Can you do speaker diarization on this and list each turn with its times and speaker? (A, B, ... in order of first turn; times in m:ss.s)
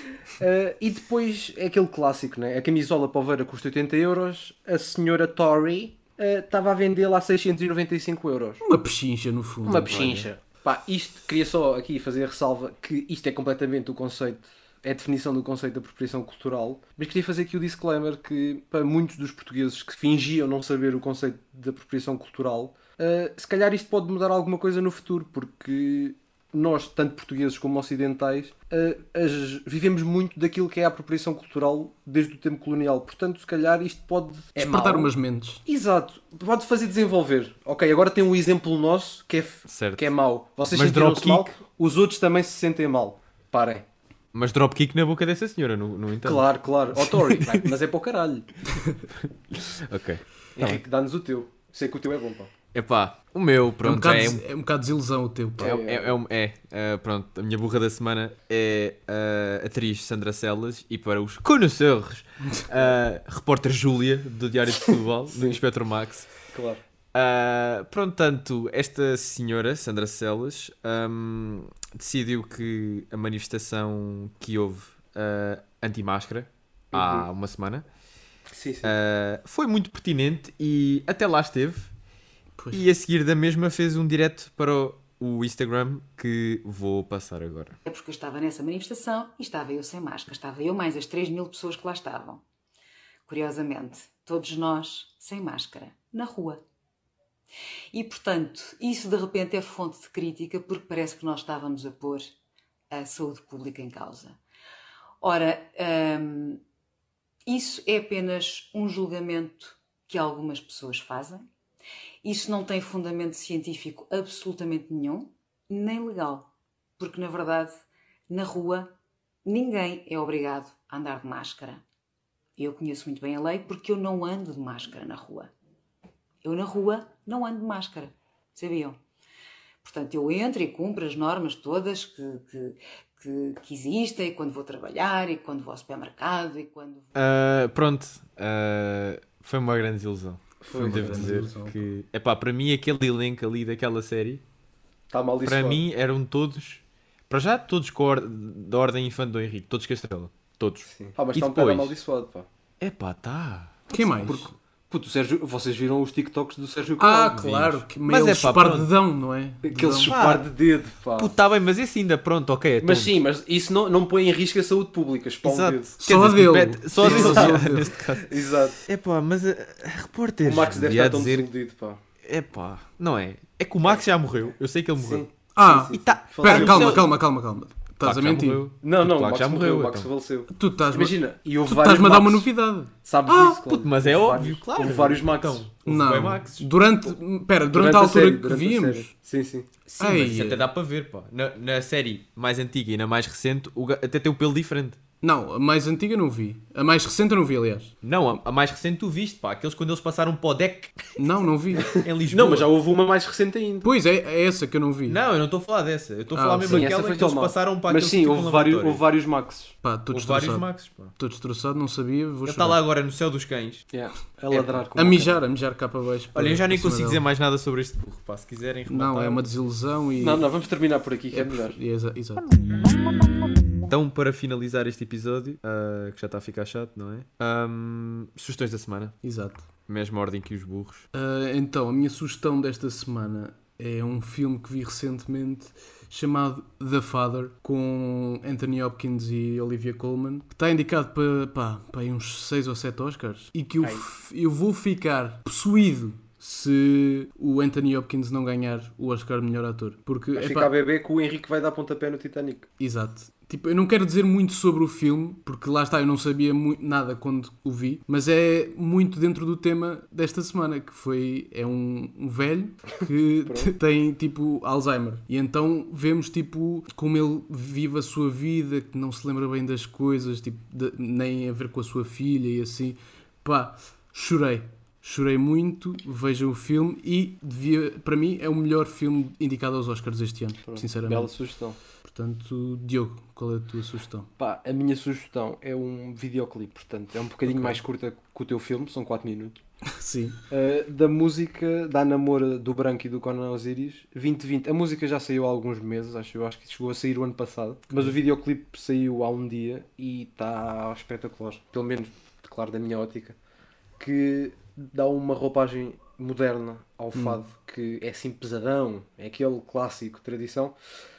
0:00.4-0:08.6 A
0:08.6-0:10.2 B
0:09.6-0:35.1 A
0:34.6-0:35.6 B
0:35.6-0:43.8 A
0:39.7-0:40.1 C
0:40.7-0:41.5 C
0:44.3-0:47.7 C
0:46.2-0:48.5 A
0:49.2-0:50.8 C
0:50.6-0:52.5 A
0:52.7-0:54.4 C
0:53.8-0:55.8 B
0:55.6-0:56.1 A
0:55.6-1:06.3 C
1:05.3-1:05.6 A
1:06.5-1:06.8 A
1:07.1-1:17.8 C
1:16.9-1:17.3 A
1:18.5-1:18.9 A
1:18.8-1:21.9 C
1:22.6-1:22.8 B
1:22.7-1:27.8 C
1:27.8-1:32.4 D
1:33.3-1:36.6 D
1:37.9-1:42.3 D
1:42.9-1:44.4 D
1:45.2-1:46.6 D
1:47.4-1:51.4 D
1:52.2-1:58.9 D
1:59.4-2:01.8 D
2:02.6-2:05.5 D
2:06.4-2:09.0 D
2:09.8-2:17.1 D
2:17.1-2:24.4 C
2:20.6-2:21.5 A
2:20.8-2:21.8 B
2:25.1-2:25.8 A
2:25.4-2:31.9 C
2:30.9-2:32.4 A
2:32.8-2:33.9 C
2:33.9-2:34.5 B
2:33.9-2:37.5 A
2:37.0-2:40.1 B
2:37.5-2:38.9 C
2:39.6-2:41.3 A
2:39.9-2:40.5 C
2:41.2-2:43.1 C
2:42.8-2:45.9 A
2:45.4-2:48.3 C
2:46.0-2:48.0 B
2:47.0-2:47.6 A
2:48.2-2:48.8 A
2:48.8-2:51.5 C
2:50.4-2:52.0 A
2:52.2-2:55.2 C
2:55.0-2:57.0 A
2:55.6-2:58.6 B
2:55.9-2:57.1 C
2:58.0-3:00.1 C
2:58.8-3:02.5 A
3:00.5-3:02.9 B
3:03.0-3:05.7 A
3:03.2-3:06.7 C
3:05.8-3:09.1 B
3:07.7-3:10.3 A
3:10.0-3:10.6 B
3:10.0-3:15.0 C
3:15.2-3:17.9 B
3:18.0-3:21.0 C
3:21.2-3:21.9 B
3:21.9-3:23.9 A
3:21.9-3:22.7 C
3:23.8-3:25.2 B
3:25.0-3:29.0 C
3:26.3-3:26.9 B
3:26.7-3:29.8 A
3:29.8-3:32.8 B
3:30.1-3:31.1 C
3:32.4-3:33.8 C
3:33.9-3:35.4 A
3:34.5-3:34.8 C
3:34.9-3:37.2 B
3:36.3-3:39.5 C
3:38.9-3:40.4 B
3:40.2-3:41.8 A
3:41.3-3:42.4 B
3:43.9-3:49.2 C
3:49.2-3:49.6 B
3:49.9-3:51.0 C
3:51.1-4:10.7 B
4:10.4-4:12.6 A
4:12.8-4:41.3 B
4:23.4-4:23.7 A
4:40.7-4:41.8 A
4:42.0-4:44.3 B
4:44.4-4:49.6 A
4:47.5-4:47.7 B
4:50.0-4:50.4 B
4:50.5-5:03.4 A
4:57.9-4:58.2 B
5:04.0-5:10.7 A
5:07.1-5:07.4 B